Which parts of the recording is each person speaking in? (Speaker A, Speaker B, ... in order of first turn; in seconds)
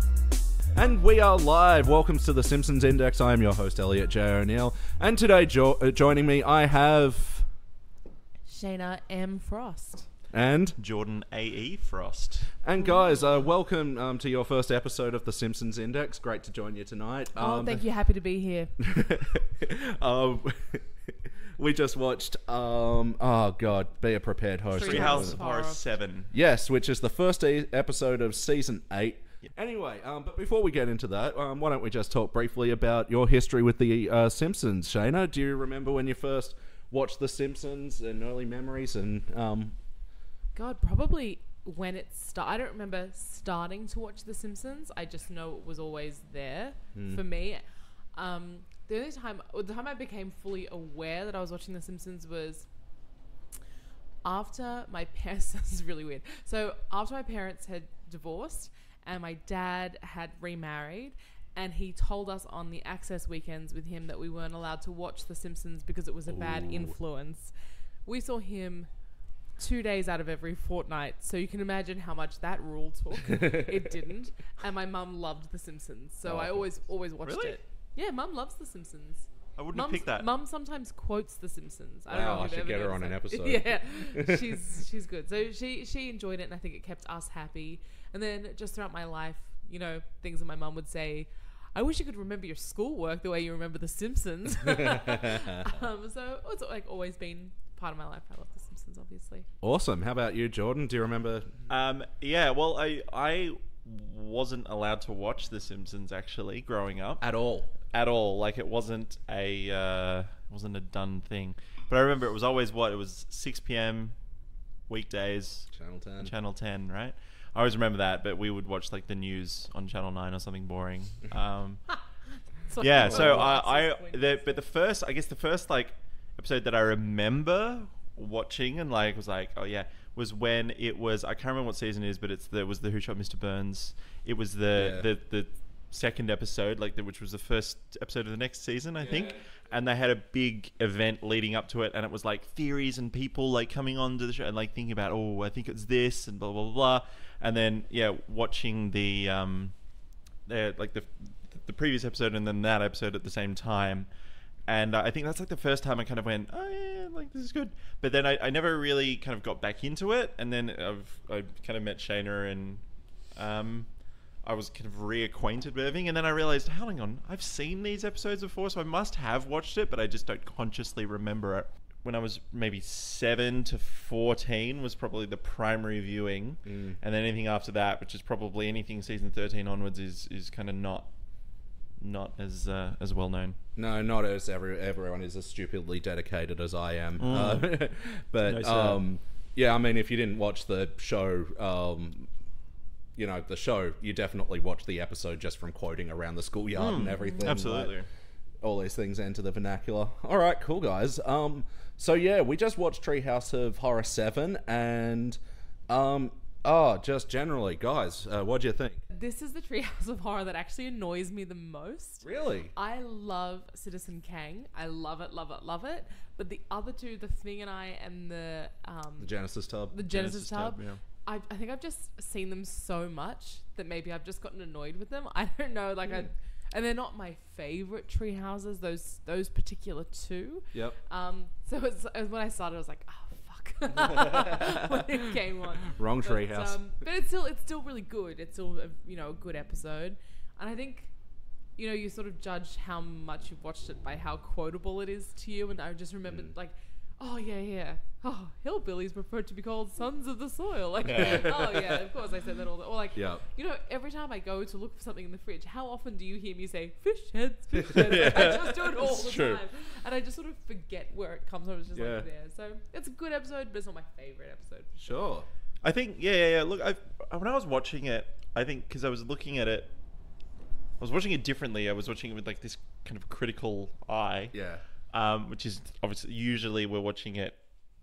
Speaker A: 0.7-7.5, 10.3-10.8, 12.6-17.8, 18.8-25.4, 26.3-39.7, 46.9-47.2, 66.3-66.9, 73.3-73.7, 76.2-76.7, 82.1-84.5, 94.7-95.7, 99.6-101.5, 107.2-107.7, 115.7-116.3, 123.0-123.5, 134.7-135.1, 139.0-139.4, 176.6-177.0, 183.8-192.3, 193.2-197.9, 198.6-205.4, 205.9-209.0, 212.2-212.7, 219.2-220.0, 235.9-236.8, 251.1-252.0, 253.1-253.4, 257.9-259.6, 261.9-262.2, 265.0-265.4, 274.5-274.8
Speaker B: 8.5-10.1, 17.4-18.8, 24.7-25.8, 40.5-47.6, 48.1-52.7, 54.2-67.5, 68.0-68.9, 69.6-99.5, 122.7-124.6, 209.1-219.3, 219.9-241.1, 241.8-265.2
Speaker C: 10.8-12.6, 24.8-26.3, 77.2-77.6, 79.6-80.3, 101.7-107.2, 107.9-114.2, 114.9-121.9, 122.8-149.8, 150.4-154.1, 154.7-181.1, 182.0-183.6, 187.2-187.8, 188.4-189.0, 196.8-198.1, 220.0-221.0, 251.0-251.6, 265.8-269.9, 271.0-274.5, 275.1-277.6